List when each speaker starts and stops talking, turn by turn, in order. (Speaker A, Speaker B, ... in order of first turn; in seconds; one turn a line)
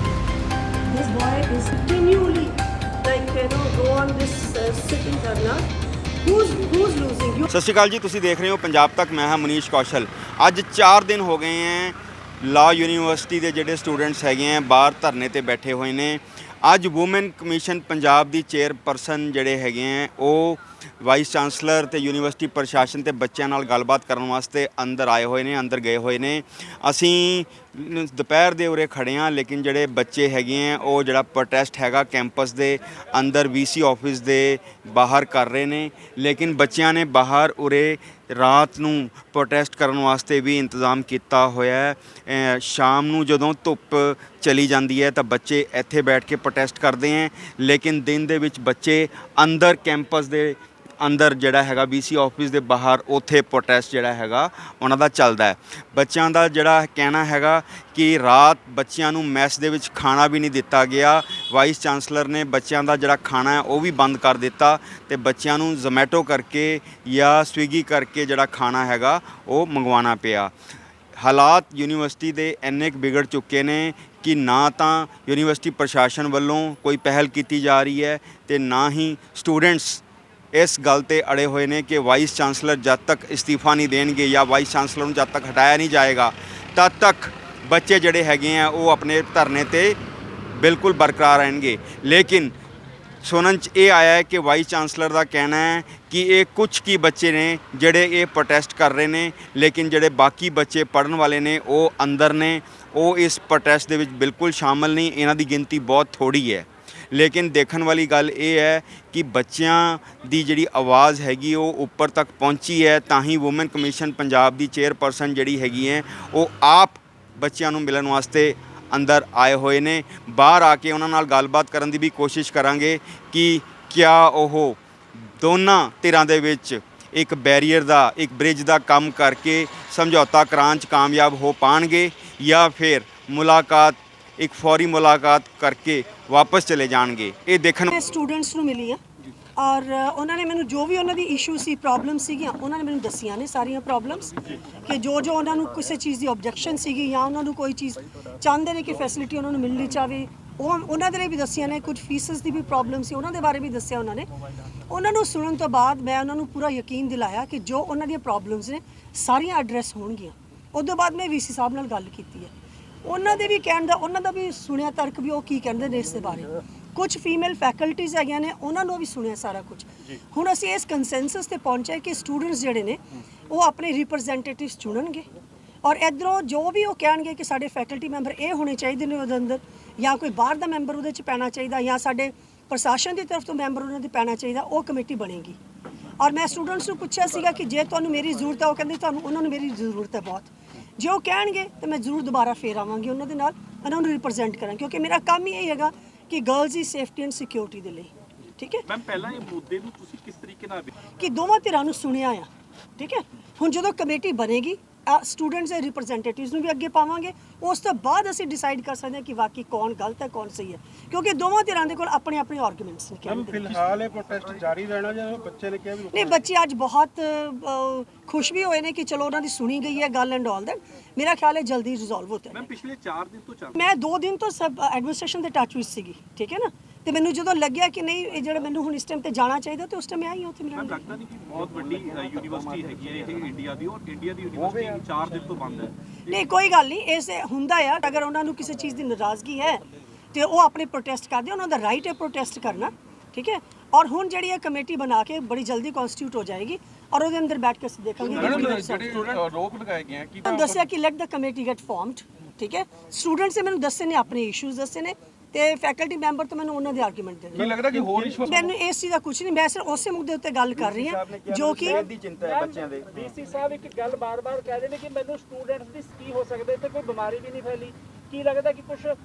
Speaker A: 0.9-5.7
Speaker A: 6.2-7.5
Speaker B: 7.5-70.5
Speaker B: 71.2-80.0
Speaker B: 80.5-90.0
Speaker B: 90.5-92.5
Speaker B: 93.2-124.8
Speaker B: 125.4-137.9
Speaker A: 137.9-139.0
Speaker A: 139.6-154.3
Speaker A: 154.9-162.5
Speaker A: 163.0-175.3
Speaker A: 175.8-185.6
Speaker A: 186.2-198.9
Speaker C: 198.9-200.9
Speaker A: 201.2-214.0
Speaker D: 213.6-216.1
Speaker A: 216.0-222.7
Speaker C: 222.5-223.9
Speaker A: 223.8-231.1
Speaker C: 230.7-235.9
Speaker D: 234.6-234.9
Speaker A: 236.3-249.4
Speaker D: 248.3-250.8
Speaker A: 250.4-257.8
Speaker D: 257.6-258.7
Speaker A: 258.4-262.1
Speaker B: 260.8-263.3
Speaker E: 262.4-262.8
Speaker E: 263.5-269.1
Speaker C: 264.9-265.4
Speaker C: 268.6-269.1